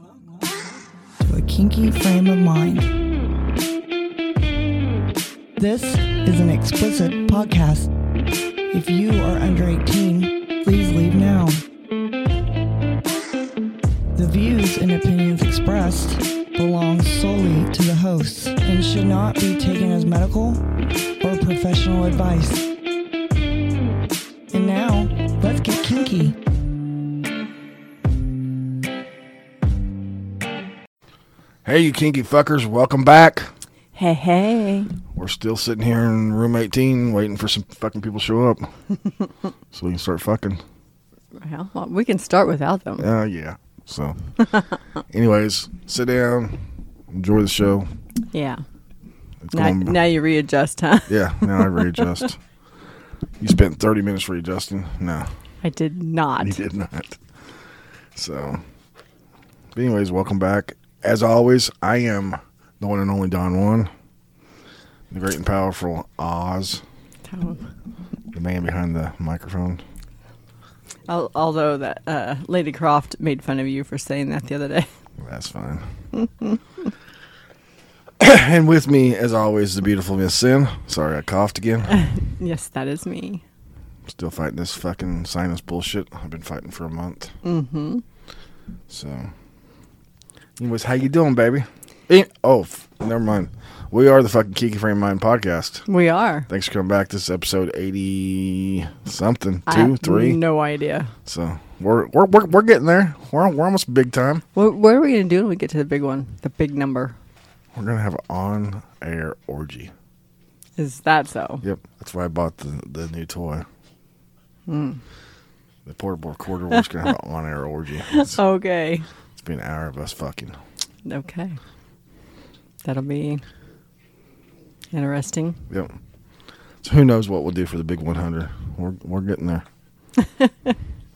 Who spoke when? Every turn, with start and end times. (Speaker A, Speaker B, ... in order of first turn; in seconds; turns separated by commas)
Speaker A: 1.2-2.9, Speaker A: 5.6-7.9, Speaker A: 8.7-11.6, Speaker A: 14.1-20.6, Speaker A: 21.2-22.7, Speaker A: 24.5-26.4, Speaker B: 31.6-33.5, Speaker C: 33.9-34.9, Speaker B: 35.1-38.7, Speaker B: 39.7-40.6, Speaker C: 41.4-43.0, Speaker B: 43.0-44.1, Speaker B: 45.1-47.9, Speaker C: 48.3-48.6, Speaker B: 49.4-50.0, Speaker C: 49.5-51.9, Speaker B: 51.1-52.4, Speaker B: 53.4-55.3, Speaker C: 55.6-56.6, Speaker B: 56.4-57.2, Speaker B: 58.1-58.6, Speaker B: 59.7-63.9, Speaker B: 65.1-66.8, Speaker C: 67.3-67.6, Speaker B: 68.3-69.8, Speaker C: 71.1-74.9, Speaker B: 75.2-75.8, Speaker C: 76.2-76.6, Speaker B: 78.2-82.0, Speaker C: 81.9-83.4, Speaker B: 84.1-87.3, Speaker C: 87.4-88.0, Speaker B: 88.9-89.3, Speaker B: 90.6-95.8, Speaker C: 95.9-96.5, Speaker B: 96.5-100.4, Speaker C: 99.7-101.1, Speaker B: 101.2-104.4, Speaker C: 104.5-107.1, Speaker B: 107.7-109.9, Speaker C: 110.8-111.6, Speaker B: 111.6-113.7, Speaker C: 114.7-115.0, Speaker B: 115.8-118.4, Speaker C: 118.1-119.1, Speaker B: 119.3-120.6, Speaker C: 121.0-121.6, Speaker C: 122.8-123.4, Speaker C: 124.9-125.6, Speaker B: 125.7-125.9, Speaker B: 126.8-129.7, Speaker C: 130.2-130.7